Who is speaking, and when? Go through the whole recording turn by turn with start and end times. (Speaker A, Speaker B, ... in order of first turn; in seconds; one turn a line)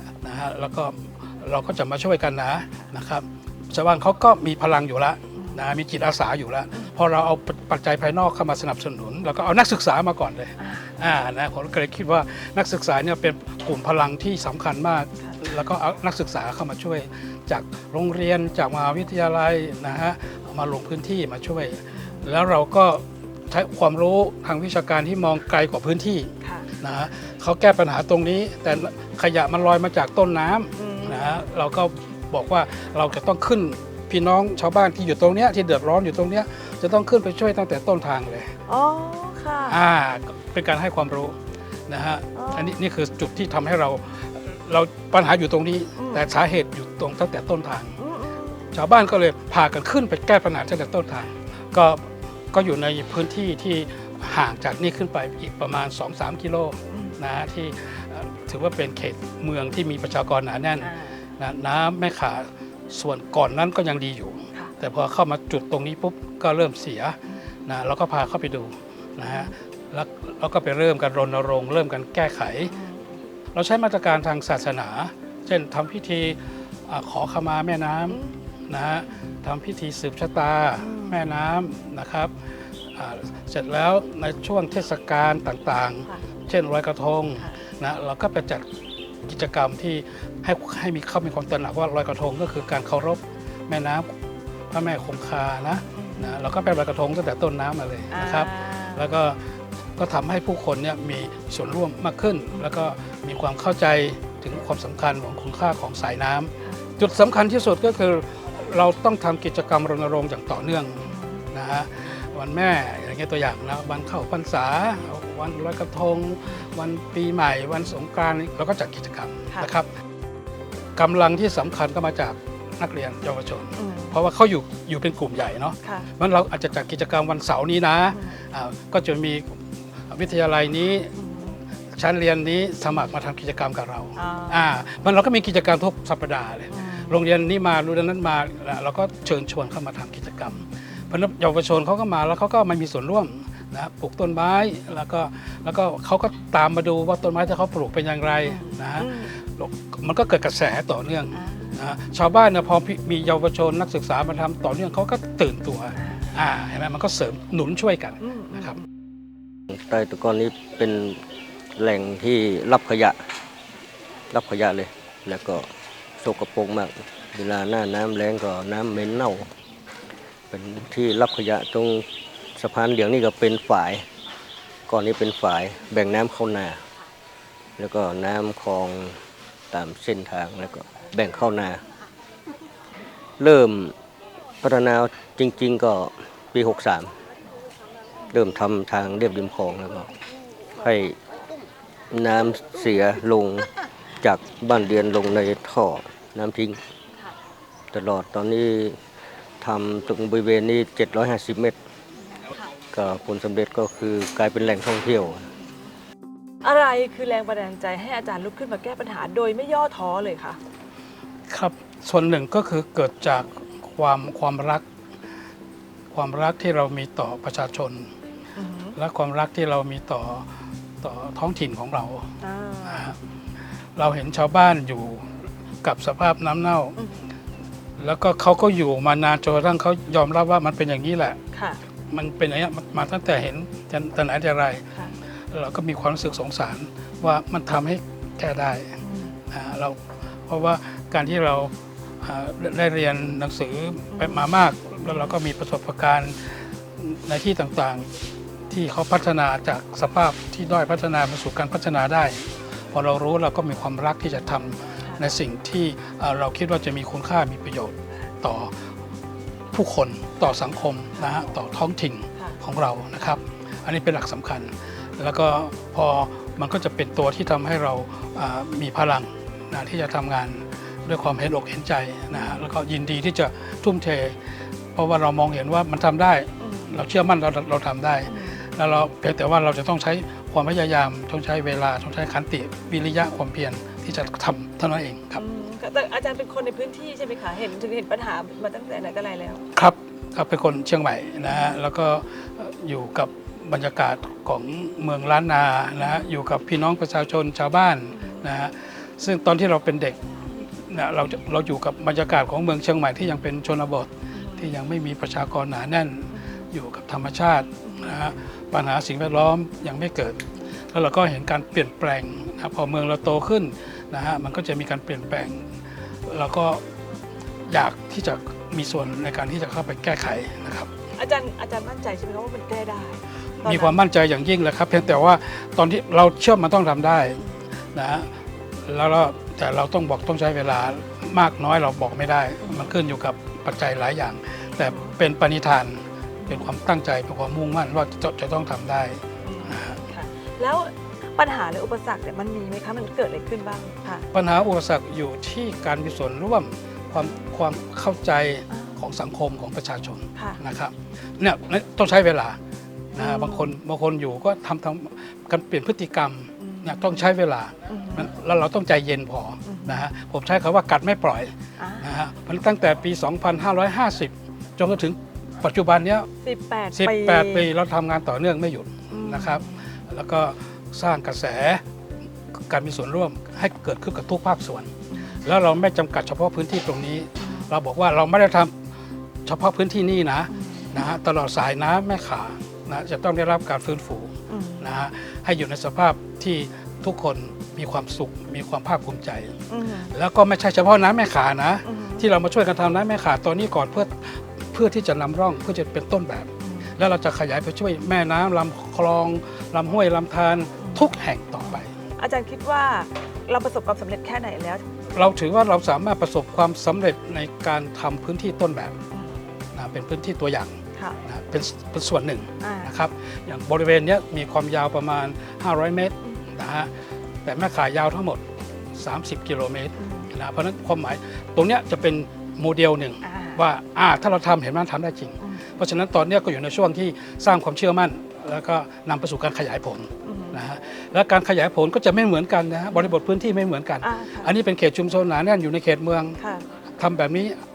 Speaker A: 0.2-38.5
Speaker B: 10.6-10.9
Speaker B: 21.9-22.2
Speaker B: 26.4-26.7
Speaker B: 30.8-31.4
Speaker B: 38.7-39.8
Speaker A: 39.7-47.9
Speaker B: 42.3-42.8
Speaker B: 46.0-46.3
Speaker B: 48.0-48.7
Speaker A: 48.7-72.7
Speaker B: 56.9-57.1
Speaker B: 60.8-61.2
Speaker B: 72.7-73.2
Speaker A: 73.5-82.3
Speaker B: 78.1-78.4
Speaker B: 80.8-81.2
Speaker A: 82.9-88.7
Speaker A: 89.2-94.1
Speaker A: 94.7-99.4
Speaker B: 95.9-96.4
Speaker B: 98.1-99.1
Speaker A: 100.0-119.9
Speaker B: 111.0-111.4
Speaker A: 121.0-131.1
Speaker B: 123.8-124.2
Speaker B: 125.8-126.1
Speaker B: 128.1-128.4
Speaker B: 131.2-131.6
Speaker A: 131.9-158.8
Speaker B: 134.2-134.7
Speaker B: 136.7-137.1
Speaker B: 148.4-149.3
Speaker B: 151.3-151.8
Speaker B: 156.0-156.3
Speaker B: 158.2-158.8
Speaker C: 159.7-161.2
Speaker C: 161.8-163.2
Speaker C: 164.3-165.7
Speaker C: 166.2-169.5
Speaker C: 170.5-174.1
Speaker C: 174.9-176.8
Speaker C: 177.8-181.8
Speaker C: 183.4-183.9
Speaker C: 184.6-187.1
Speaker C: 188.3-190.1
Speaker C: 190.7-191.2
Speaker C: 192.1-193.7
Speaker C: 194.2-196.8
Speaker C: 197.9-199.0
Speaker C: 199.6-201.8
Speaker C: 202.9-205.4
Speaker B: 206.6-210.6
Speaker A: 211.5-214.8
Speaker A: 216.1-218.1
Speaker B: 218.6-218.9
Speaker A: 218.9-222.3
Speaker B: 222.4-223.2
Speaker A: 222.8-223.2
Speaker A: 223.9-227.0
Speaker A: 228.0-231.4
Speaker B: 231.5-231.8
Speaker A: 232.1-234.8
Speaker A: 235.5-239.0
Speaker B: 239.0-239.3
Speaker A: 239.5-248.2
Speaker B: 244.1-244.5
Speaker A: 248.7-258.8
Speaker A: 259.7-285.4
Speaker B: 272.3-272.6
Speaker B: 276.6-276.9
Speaker B: 278.3-278.6
Speaker B: 285.4-289.6
Speaker A: 289.7-316.8
Speaker B: 291.5-291.8
Speaker B: 296.0-296.3
Speaker B: 298.1-298.4
Speaker B: 304.3-304.7
Speaker B: 306.3-306.6
Speaker B: 307.8-308.1
Speaker A: 317.6-320.9
Speaker B: 321.1-324.0
Speaker A: 323.6-328.3
Speaker A: 328.8-340.0
Speaker B: 332.6-332.9
Speaker B: 334.8-335.1
Speaker B: 336.4-336.7
Speaker B: 339.4-344.3
Speaker A: 344.3-352.6
Speaker B: 348.7-349.0
Speaker A: 353.1-366.3
Speaker B: 353.2-353.7
Speaker B: 356.6-357.2
Speaker B: 357.9-358.3
Speaker B: 359.6-360.1
Speaker B: 361.8-362.1
Speaker B: 366.4-367.7
Speaker A: 366.9-371.8
Speaker B: 369.1-369.9
Speaker A: 372.5-374.9
Speaker B: 375.1-375.4
Speaker A: 375.4-378.7
Speaker B: 377.4-377.7
Speaker A: 379.4-389.6
Speaker B: 380.5-380.9
Speaker B: 384.5-384.9
Speaker B: 389.7-390.1
Speaker A: 390.1-401.9
Speaker B: 391.8-392.3
Speaker B: 396.6-396.9
Speaker B: 400.8-401.1
Speaker B: 402.2-404.8
Speaker A: 405.1-409.0
Speaker A: 409.7-416.9
Speaker B: 412.6-412.9
Speaker A: 417.4-436.4
Speaker B: 420.0-420.3
Speaker B: 423.2-423.6
Speaker B: 425.4-425.7
Speaker B: 430.2-430.6
Speaker B: 434.0-434.5
Speaker B: 436.4-436.6
Speaker A: 437.0-437.6